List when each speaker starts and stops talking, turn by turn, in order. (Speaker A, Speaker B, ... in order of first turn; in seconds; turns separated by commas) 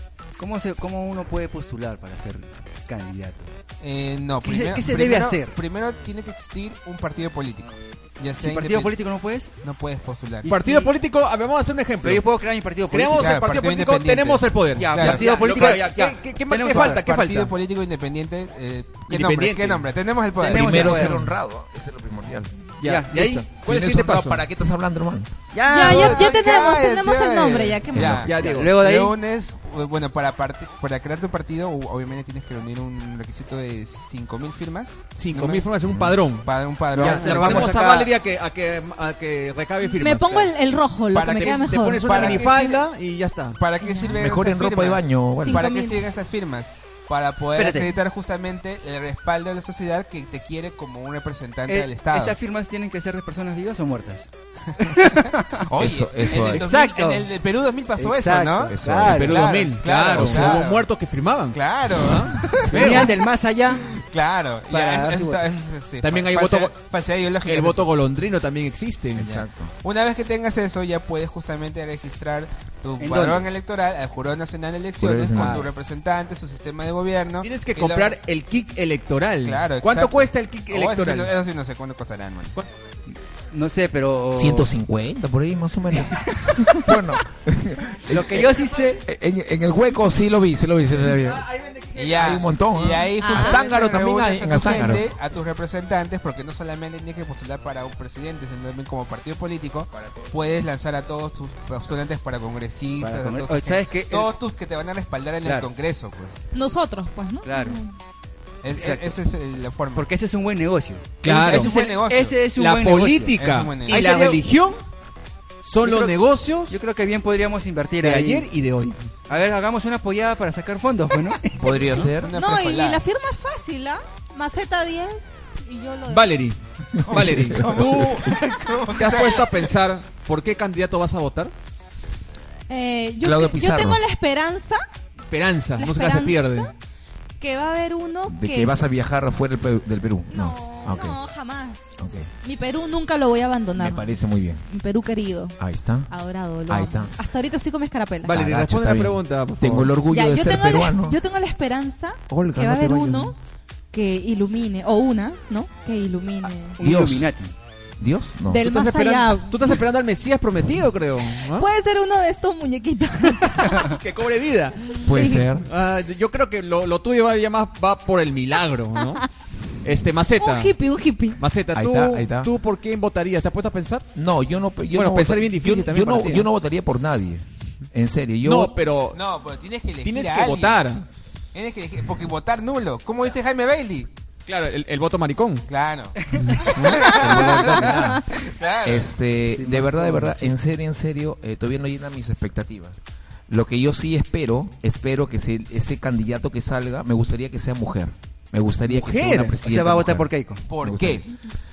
Speaker A: 0.4-3.5, Speaker B: 3.8-9.0, Speaker A: 4.4-5.6, Speaker A: 8.4-9.5, Speaker B: 9.6-10.5, Speaker A: 10.4-10.9, Speaker C: 10.4-12.2, Speaker A: 12.0-13.3, Speaker C: 12.9-17.5, Speaker B: 13.1-15.9, Speaker A: 14.8-17.0, Speaker B: 16.6-21.0, Speaker C: 19.1-19.9, Speaker A: 20.4-21.3, Speaker D: 20.4-22.5, Speaker C: 22.8-24.4, Speaker A: 22.8-23.4, Speaker D: 23.6-25.3, Speaker A: 25.5-26.3, Speaker E: 25.7-28.2, Speaker B: 25.8-35.6, Speaker D: 27.9-28.5, Speaker C: 28.0-28.8, Speaker A: 28.4-29.1, Speaker C: 35.1-40.5, Speaker D: 35.9-36.2, Speaker B: 36.4-37.8, Speaker A: 36.9-38.1, Speaker E: 39.9-42.4, Speaker B: 41.1-42.8, Speaker C: 41.4-43.6, Speaker B: 43.6-52.4, Speaker E: 43.8-44.2, Speaker D: 44.1-45.7, Speaker E: 45.4-46.1, Speaker A: 47.5-48.0, Speaker A: 51.6-55.7, Speaker D: 55.7-56.7, Speaker B: 55.7-60.9, Speaker A: 56.3-57.3, Speaker A: 58.0-59.5, Speaker D: 58.7-59.3, Speaker C: 59.1-63.1, Speaker D: 60.1-60.6, Speaker B: 61.5-63.2, Speaker A: 62.7-63.9, Speaker B: 64.0-67.9, Speaker A: 64.7-65.4, Speaker C: 66.0-66.8, Speaker C: 67.4-69.4, Speaker D: 69.1-69.7, Speaker B: 69.8-78.2, Speaker A: 73.0-73.5, Speaker D: 75.0-75.7, Speaker C: 75.3-75.6, Speaker C: 77.4-81.3, Speaker B: 79.4-82.6, Speaker A: 83.5-84.7, Speaker D: 84.3-91.5, Speaker A: 88.1-89.0, Speaker C: 91.1-92.4, Speaker B: 91.9-106.4, Speaker D: 92.1-95.0, Speaker E: 93.2-93.6, Speaker A: 103.0-104.3, Speaker E: 106.5-107.9, Speaker A: 107.4-107.8, Speaker B: 108.6-110.1, Speaker A: 108.7-109.2, Speaker A: 109.9-113.4, Speaker C: 111.2-111.8, Speaker B: 111.2-112.4, Speaker C: 112.5-114.8, Speaker B: 113.3-114.1, Speaker A: 113.9-114.4, Speaker C: 115.6-116.8, Speaker A: 115.8-118.5, Speaker C: 118.0-119.1, Speaker A: 119.3-122.0, Speaker D: 121.6-122.3, Speaker B: 122.0-123.0, Speaker E: 122.3-126.3, Speaker C: 126.1-131.5, Speaker D: 127.0-128.0, Speaker B: 127.0-129.7, Speaker E: 132.7-134.8, Speaker D: 133.2-134.0, Speaker C: 135.3-136.7, Speaker E: 135.8-136.7, Speaker E: 137.4-139.0, Speaker D: 138.3-141.2, Speaker E: 140.3-141.8, Speaker D: 142.0-142.3, Speaker E: 142.4-144.1, Speaker D: 143.7-144.6, Speaker E: 144.7-145.6, Speaker D: 145.6-146.1, Speaker E: 146.1-148.4, Speaker D: 146.7-147.1, Speaker C: 148.2-149.9, Speaker D: 148.3-151.2, Speaker E: 150.1-153.3, Speaker D: 152.3-153.3, Speaker E: 153.9-156.8, Speaker A: 156.8-157.5, Speaker D: 156.8-157.3, Speaker D: 158.0-158.7, Speaker E: 158.5-159.8, Speaker C: 158.6-161.7, Speaker E: 161.5-164.0, Speaker C: 163.4-169.2, Speaker E: 165.0-165.4, Speaker D: 165.1-165.7, Speaker C: 169.8-170.7, Speaker E: 170.4-171.4, Speaker C: 171.4-174.1, Speaker D: 171.7-172.5, Speaker D: 174.1-178.7, Speaker C: 174.9-176.5, Speaker C: 178.4-179.2, Speaker B: 179.1-180.8, Speaker C: 180.0-181.0, Speaker B: 181.5-184.1, Speaker C: 184.5-185.7, Speaker B: 185.7-189.1, Speaker D: 186.7-188.2, Speaker D: 188.8-200.3, Speaker A: 189.5-190.5, Speaker C: 198.8-199.6, Speaker A: 199.6-200.6, Speaker B: 200.7-201.3, Speaker D: 200.8-201.3